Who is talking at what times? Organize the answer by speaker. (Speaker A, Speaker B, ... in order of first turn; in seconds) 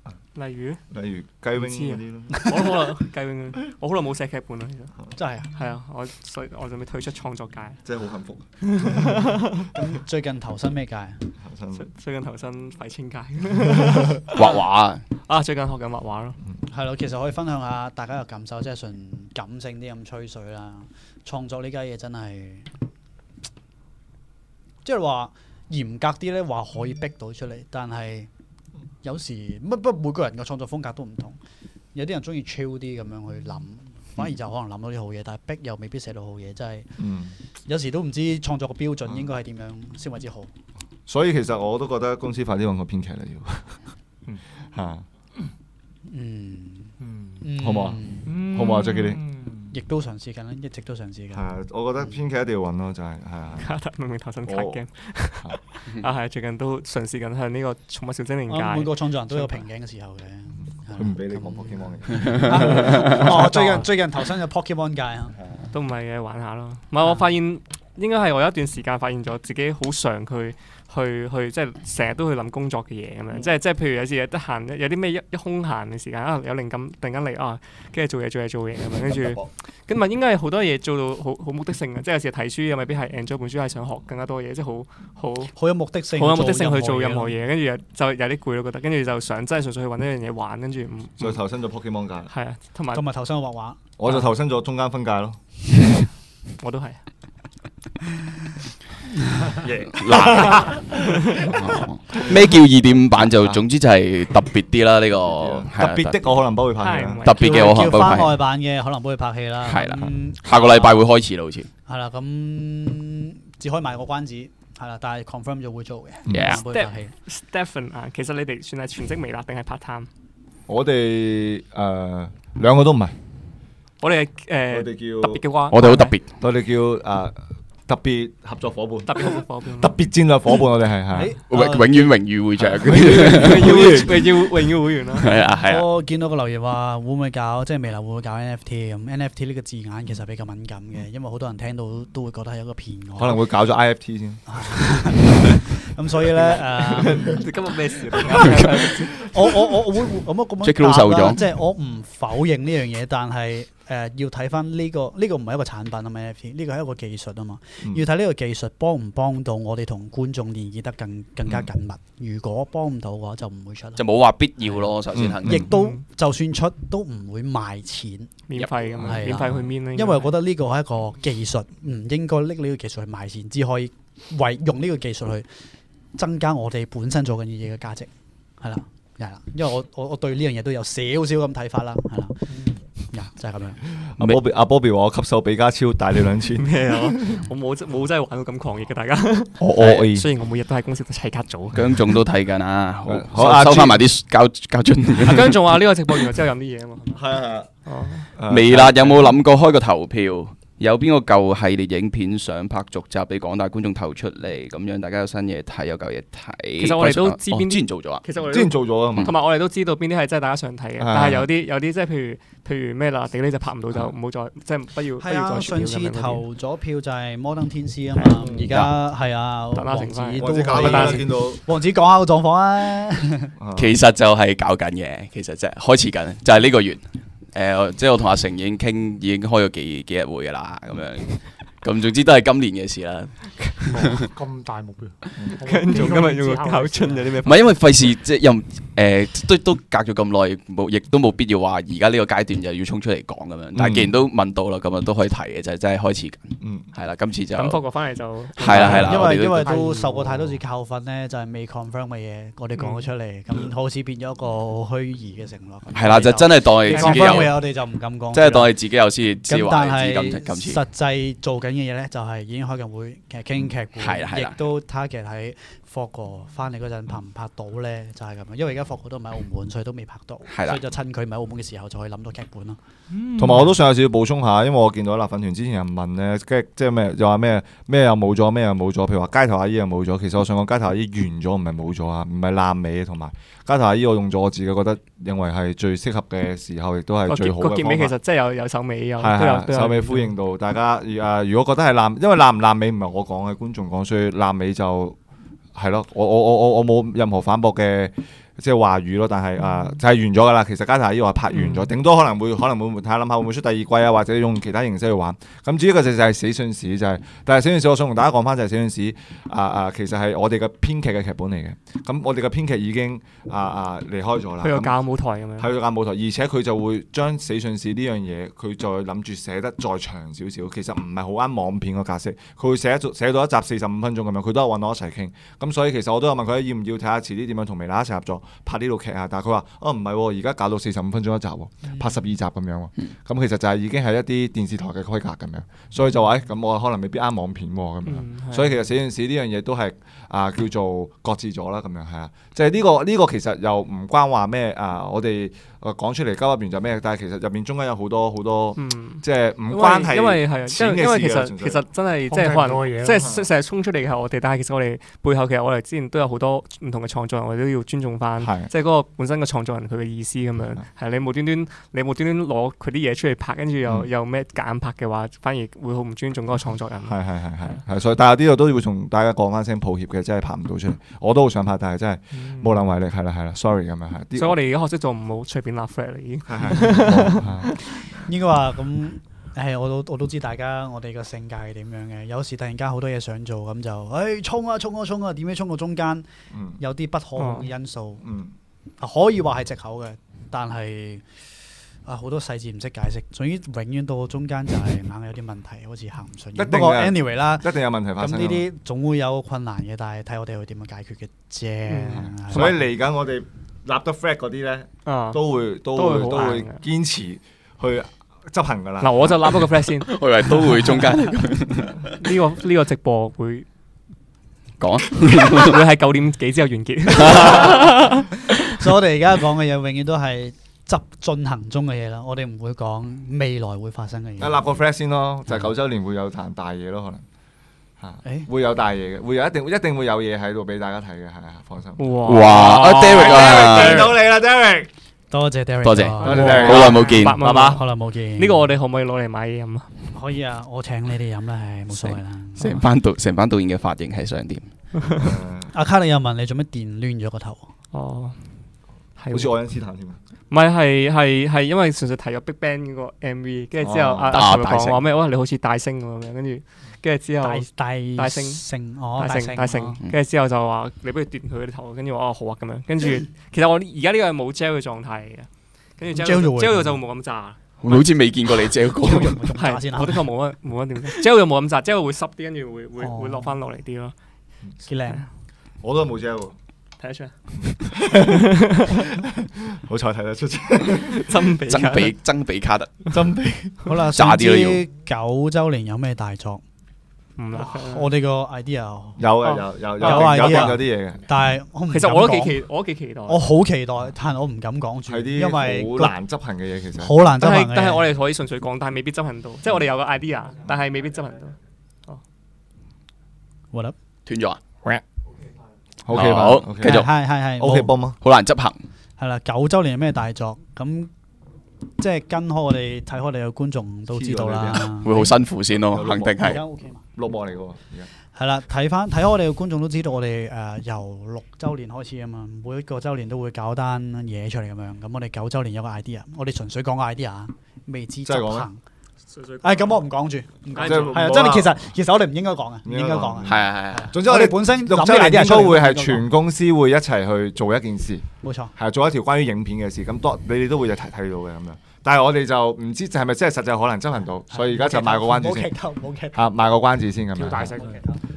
Speaker A: 0.3-0.8, 1.6-4.9, 5.5-7.8, 8.6-9.7, 11.8-14.6, 15.2-16.4, 53.6-58.9, 62.9-63.9, 65.7-85.5, 86.1-91.3, 92.3-93.0, 96.6-97.0, 101.0-101.5, 106.8-108.1, 116.6-120.1, 124.0-126.2, 129.1-129.9, 132.8-135.3, 146.6-149.4, 165.7-166.0, 168.5-170.3, 186.6-192.2, 195.2-197.2, 197.8-198.3, 206.8-216.4, 219.7-221.3, 235.6-237.7, 247.5-249.1, 252.8-253.1, 287.3-290.3, 301.5-301.9, 314.6-315.7, 338.1-338.8, 348.8-367.2, 374.4-378.1, 387.4-387.7, 401.9-402.3, 405.1-406.8, 409.0-411.1, 412.1-413.7, 415.2-418.8, 432.0-434.1, 436.2-439.9, 445.0-445.3, 447.9-448.5, 449.2-449.5, 450.5-458.6, 459.2-467.6, 469.5-474.1, 477.0-477.4, 478.3-479.0, 480.9-482.2, 487.4-488.1, 489.4-490.7, 491.9-493.4, 497.4-501.6, 529.3-530.0, 530.7-531.2
Speaker B: 0.9-2.5, 7.8-9.2, 11.4-11.9, 37.0-37.3, 41.1-43.8, 44.7-45.0, 47.6-49.2, 51.3-53.7, 54.5-54.8, 60.9-63.3, 79.1-79.5, 91.2-92.3, 94.0-95.4, 99.6-101.6, 103.3-103.7, 105.2-107.2, 116.3-116.6, 120.7-123.2, 124.7-125.4, 126.4-127.4, 127.9-131.3, 132.6-134.2, 143.2-144.7, 165.1-165.7, 184.0-187.4, 189.6-190.3, 193.1-194.1, 197.1-197.7, 198.4-199.4, 208.4-209.3, 211.0-211.5, 218.4-218.9, 220.4-221.6, 223.6-224.0, 243.7-244.1, 246.6-246.9, 273.4-288.1, 289.2-295.2, 295.8-314.9, 315.6-351.8, 353.2-353.5, 358.4-358.7, 367.1-374.6, 376.5-377.7, 386.5-386.8, 388.2-388.5, 396.6-398.6, 402.2-409.4, 424.4-427.2, 428.0-434.9, 436.2-437.8, 445.2-445.7, 449.3-450.2, 453.8-454.4, 475.8-476.6, 477.6-481.3, 483.1-483.9, 489.2-491.2, 495.1-497.1, 506.1-507.1, 507.6-508.2, 514.1-514.9, 515.8-516.6, 517.1-518.1, 528.3-528.7, 530.8-531.8, 532.9-545.7, 546.3-547.8
Speaker C: 2.3-2.6, 5.2-5.5, 9.7-11.3, 16.6-22.7, 24.8-28.3, 29.0-31.4, 31.9-37.0, 37.7-40.5, 46.1-48.4, 49.7-51.5, 58.5-65.3, 85.5-87.3, 92.9-93.8, 107.3-111.0, 111.9-117.1, 131.1-132.2, 135.5-143.4, 144.5-147.5, 148.2-164.0, 165.4-168.4, 169.0-175.5, 176.2-183.8, 215.2-223.5, 248.7-258.8, 259.5-272.8, 331.8-332.2, 378.1-386.3, 386.8-388.2, 389.0-391.3, 392.1-402.8, 417.4-417.8, 418.7-424.6, 435.3-438.7, 440.1-442.9, 445.7-447.6, 457.4-460.0, 466.1-467.0, 468.9-470.2, 473.0-473.6, 474.8-475.3, 483.8-486.6, 487.5-489.2, 490.0-492.6, 493.3-496.1, 497.0-498.1, 506.8-507.9, 509.2-511.1, 512.0-515.4, 516.3-517.0, 518.4-528.8, 529.6-536.3, 538.4-538.7, 544.5-546.5, 547.8-548.2
Speaker D: 14.3-15.0, 99.9-106.2, 107.2-108.4, 109.6-111.7, 116.3-116.6, 125.7-126.3, 131.5-134.3, 135.1-135.9, 150.6-151.4, 164.0-165.7, 191.7-195.8, 198.5-208.2, 223.8-234.3, 237.4-247.8, 248.6-249.8, 255.9-257.6, 258.3-260.8, 264.0-264.6, 270.5-270.8, 410.0-412.1, 414.8-415.8, 417.1-417.8, 432.2-434.2, 435.8-437.4, 441.9-444.7, 454.3-455.0, 467.8-469.4, 481.7-483.1, 484.1-484.8, 504.3-505.0, 506.1-507.1, 508.2-508.8, 515.0-516.6, 533.5-534.1
Speaker E: 47.0-47.5, 48.2-49.7, 233.9-237.4, 248.8-250.6, 256.9-257.5, 273.1-273.7, 352.3-353.3, 372.4-372.7, 547.4-548.0